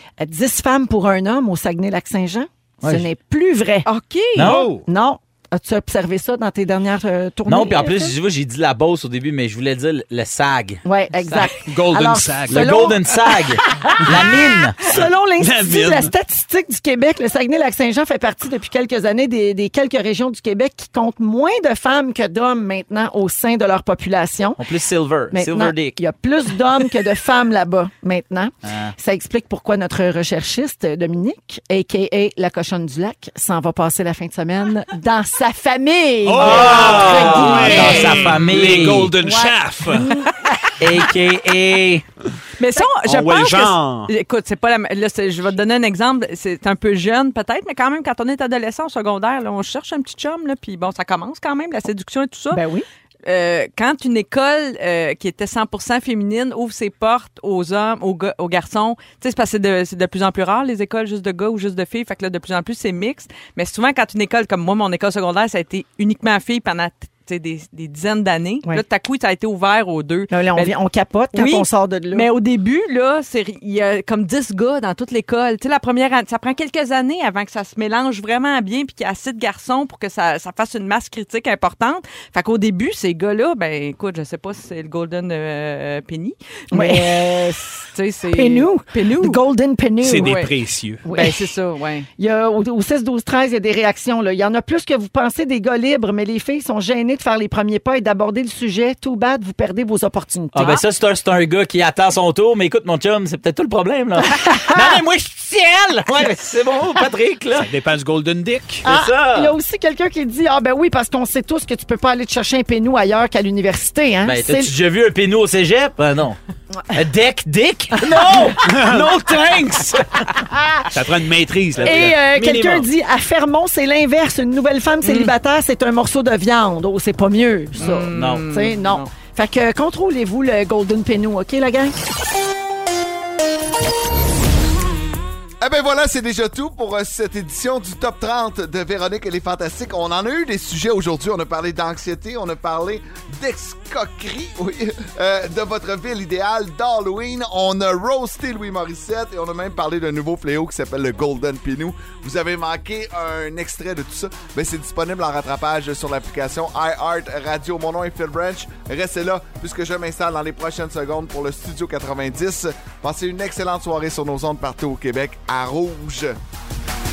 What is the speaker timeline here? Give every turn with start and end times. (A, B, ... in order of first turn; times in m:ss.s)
0:00.2-0:03.9 A
0:02.8-0:03.1 B
0:03.8-0:04.7 C
0:04.4-0:04.8 B
0:04.4-0:08.1 A
0:07.5-0:10.8 B
0:10.8-0:24.6 A
0:11.2-0:11.5 C
0:11.6-0:13.0 D
0:12.5-0:14.8 B
0:14.8-0:16.1 D
0:24.6-0:26.0 B
0:25.3-0:40.3 A
0:28.6-0:29.0 B
0:36.3-0:40.1 D
0:36.4-0:39.2 B
0:40.8-0:42.0 B
0:42.6-0:52.6 C
0:43.0-0:44.1 D
0:52.5-0:52.8 A
0:53.2-1:10.7 C
1:10.3-1:12.3 A
1:11.3-1:29.4 C
1:26.7-1:30.4 A
1:30.0-1:31.0 D
1:30.2-1:30.6 C
1:31.0-1:31.5 A
1:31.1-1:32.1 C
1:32.2-1:40.8 A
1:40.5-1:47.7 B
1:44.3-1:45.0 A
1:47.5-1:48.9 D
1:48.8-1:54.7 A
1:48.8-1:49.5 B
1:54.2-1:56.4 B
1:56.9-1:59.9 B
1:58.0-1:59.2 A
1:58.6-2:00.0 D
2:00.4-2:00.9 A
2:00.9-2:02.4 D
2:01.8-2:11.9 A
2:01.8-2:02.9 B
2:07.8-2:09.1 C
2:08.1-2:08.5 B
2:15.6-2:46.4 E